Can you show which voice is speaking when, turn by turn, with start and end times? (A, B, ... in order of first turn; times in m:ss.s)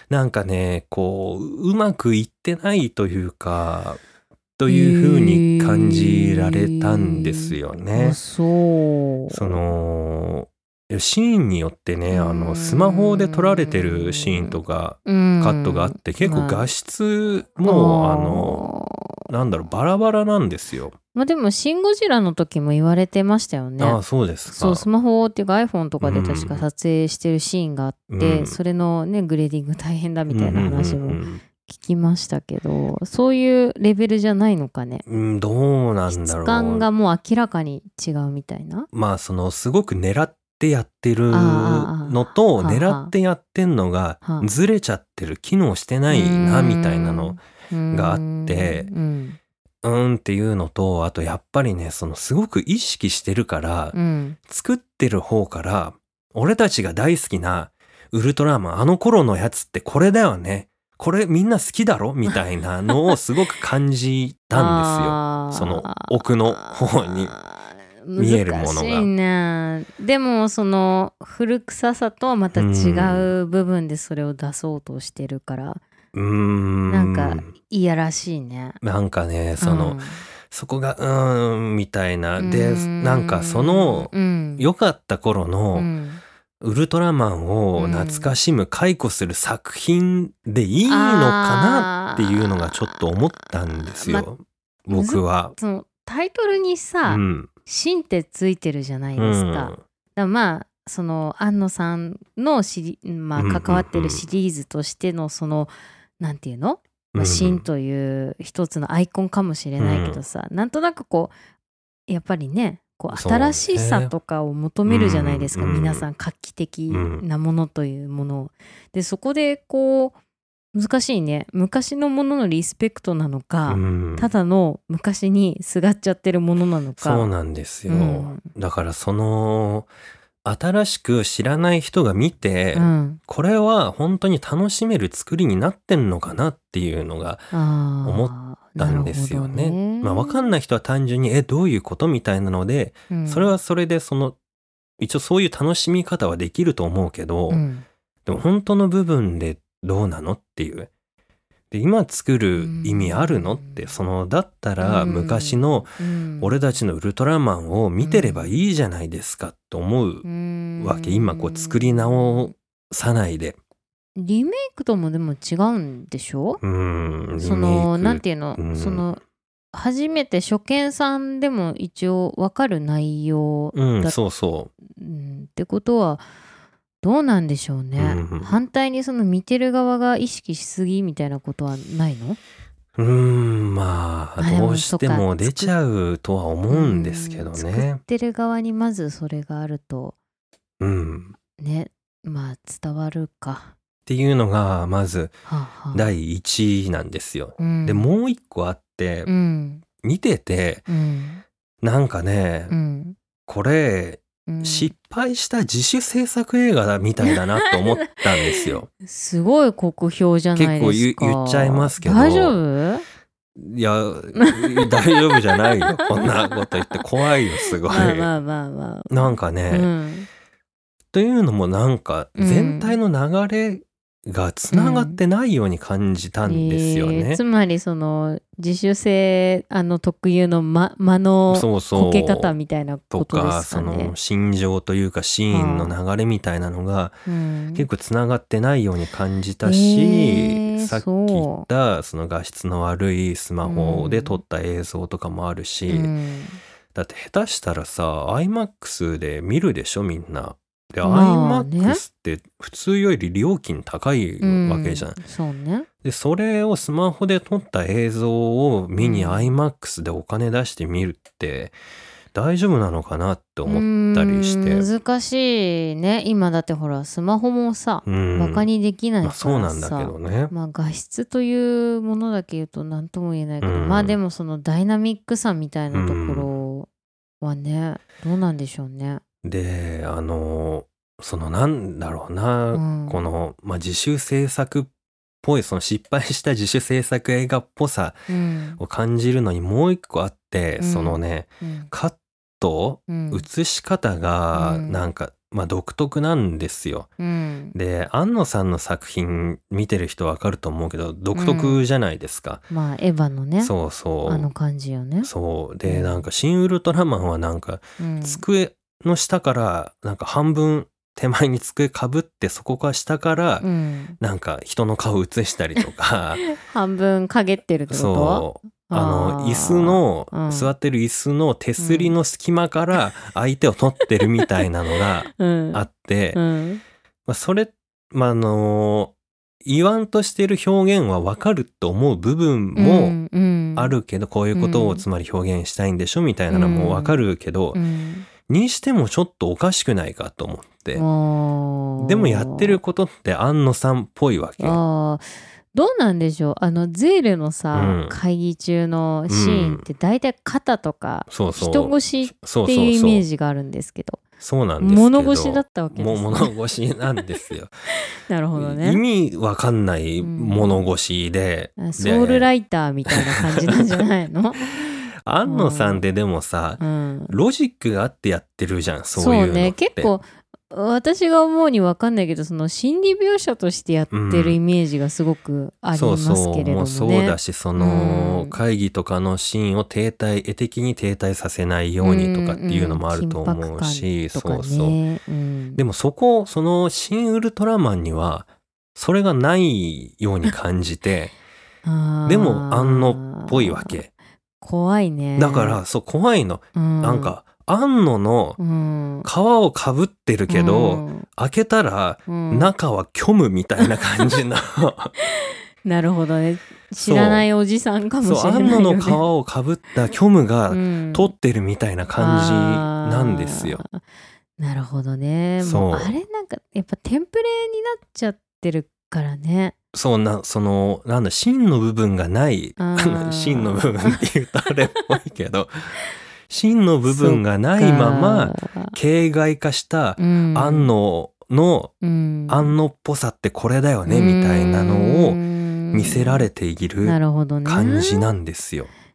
0:00.1-0:04.0 A
0:04.6-0:08.2 A
0:04.7-0:09.6 B
0:09.3-0:18.6 A
0:12.1-0:16.7 B
0:17.6-0:19.2 B
0:19.3-0:21.0 A
0:21.1-0:35.0 B
0:23.8-0:24.8 A
0:26.0-0:26.6 A
0:28.1-0:28.6 A
0:30.3-0:31.4 A
0:35.0-0:36.9 A
0:36.1-0:38.9 B
0:38.9-0:47.4 A
0:41.3-0:43.1 B
0:46.1-0:49.4 B
0:47.9-0:48.9 A
0:49.8-0:54.0 A
0:53.9-0:54.4 B
0:54.5-1:07.3 A
1:04.5-1:15.8 B
1:08.2-1:09.1 A
1:12.5-1:13.3 A
1:16.1-1:17.5 A
1:16.9-1:18.8 B
1:18.8-1:25.9 A
1:19.6-1:20.2 B
1:22.4-1:24.7 B
1:25.7-1:26.2 B
1:26.6-1:35.5 A
1:27.8-1:28.3 B
1:30.9-1:34.3 B
1:34.9-1:51.3 B
1:37.0-1:37.5 A
1:39.2-1:39.8 A
1:43.3-1:44.2 A
1:47.1-1:47.6 A
1:49.8-1:50.2 A
1:52.1-2:00.2 B
1:53.1-1:54.1 A
1:54.9-1:56.0 A
1:56.9-1:57.2 A
2:00.7-2:07.3 B
2:03.7-2:04.3 A
2:07.0-2:09.9 A
2:07.9-2:08.4 B
2:10.4-2:17.5 A
2:12.7-2:13.2 B
2:17.5-2:20.5 B
2:18.0-2:24.4 A
2:23.1-2:23.6 B
2:25.0-2:27.6 A
2:27.5-2:27.8 B
2:28.2-2:30.9 A
2:31.7-2:40.2 A
2:32.6-2:33.9 B
2:34.8-2:36.6 B
2:38.0-2:38.5 B
2:40.2-2:42.5 B
2:40.8-2:43.6 A
2:44.2-2:46.6 B
2:46.6-2:49.0 A
2:47.4-2:49.2 B
2:49.7-2:54.2 B
2:53.7-2:54.7 A
2:54.8-2:56.2 B
2:57.0-3:02.4 B
2:58.0-2:58.6 A
3:03.0-3:08.0 A
3:04.4-3:05.7 B
3:06.7-3:10.2 B
3:10.8-3:11.4 A
3:11.6-3:13.7 B
3:14.0-3:15.4 A
3:15.4-3:16.0 B
3:15.9-3:19.3 A
3:17.6-3:18.1 B
3:19.2-3:19.8 B
3:20.0-3:20.8 A
3:20.9-3:21.4 B
3:21.8-3:22.7 A
3:22.7-3:23.2 B
3:23.5-3:28.9 A
3:24.5-3:24.9 B
3:27.2-3:33.0 B
3:30.6-3:32.6 A
3:33.6-3:38.3 A
3:34.3-3:37.0 B
3:37.6-3:40.3 B
3:39.1-3:39.9 A
3:41.1-3:47.4 A
3:42.4-3:43.0 B
3:44.7-3:45.2 B
3:46.4-3:54.1 B
3:51.5-3:52.6 A
3:53.1-3:57.2 A
3:55.5-3:55.9 B
3:57.3-3:57.9 B
3:57.7-4:06.1 A
3:59.6-4:01.6 B
4:03.6-4:04.4 B
4:05.9-4:06.6 B
4:06.9-4:15.2 A
4:11.0-4:12.0 B
4:14.4-4:15.9 B
4:16.0-4:21.8 A
4:19.0-4:19.5 B
4:22.3-4:24.8 A
4:23.6-4:36.9 B
4:28.0-4:28.7 A
4:29.2-4:30.5 A
4:33.6-4:34.2 A
4:35.9-4:36.5 A
4:37.4-4:39.2 B
4:39.4-4:44.9 A
4:42.7-4:43.2 B
4:45.4-4:48.2 A
4:48.3-4:48.8 B
4:48.8-4:57.1 A
4:50.8-4:51.9 B
4:53.1-4:53.4 B
4:54.5-4:55.0 B
4:57.2-4:57.7 B
4:57.7-5:02.6 A
5:01.3-5:01.8 B
5:02.7-5:03.7 B
5:03.6-5:04.5 A
5:04.2-5:05.3 B
5:05.2-5:13.6 A
5:05.8-5:06.2 B
5:08.0-5:08.4 B
5:13.6-5:14.2 B
5:14.2-5:16.4 A
5:16.4-5:20.7 B
5:17.9-5:26.4 A
5:21.8-5:22.1 B
5:24.2-5:24.6 B
5:25.3-5:26.8 B
5:27.3-5:29.1 A
5:29.6-5:33.2 A
5:32.7-5:34.0 B
5:33.8-5:37.8 A
5:34.5-5:35.0 B
5:36.5-5:37.2 B
5:37.7-5:38.3 B
5:38.4-5:41.0 A
5:40.9-5:42.8 B
5:42.0-5:44.8 A
5:44.6-5:54.2 B
5:47.7-5:48.2 A
5:49.3-5:49.8 A
5:51.3-5:53.2 A
5:54.4-5:57.7 A
5:54.8-5:56.5 B
5:58.0-5:59.0 B
5:58.5-6:02.5 A
6:00.2-6:00.7 B
6:01.8-6:06.1 B
6:03.1-6:04.0 A
6:04.8-6:10.1 A
6:06.8-6:07.4 B
6:09.1-6:18.6 B
6:14.1-6:14.6 A
6:15.9-6:25.0 A
6:22.0-6:25.8 B
6:25.8-6:31.3 A
6:31.8-6:34.0 B
6:32.2-6:34.1 A
6:34.6-6:35.8 B
6:35.4-6:38.6 A
6:36.7-6:37.4 B
6:38.6-6:39.3 B
6:39.2-6:45.1 A
6:40.5-6:41.2 B
6:42.3-6:42.7 B
6:43.8-6:44.3 B
6:45.2-6:49.2 B
6:47.0-6:47.5 A
6:48.2-6:53.8 A
6:50.7-6:51.3 B
6:52.2-6:54.0 B
6:54.6-6:59.7 B
6:55.6-6:56.2 A
6:59.9-7:11.9 A
7:02.8-7:04.2 B
7:07.1-7:09.0 B
7:10.2-7:10.9 B
7:12.0-7:12.8 B
7:12.5-7:18.9 A
7:14.0-7:16.5 B
7:17.0-7:18.3 B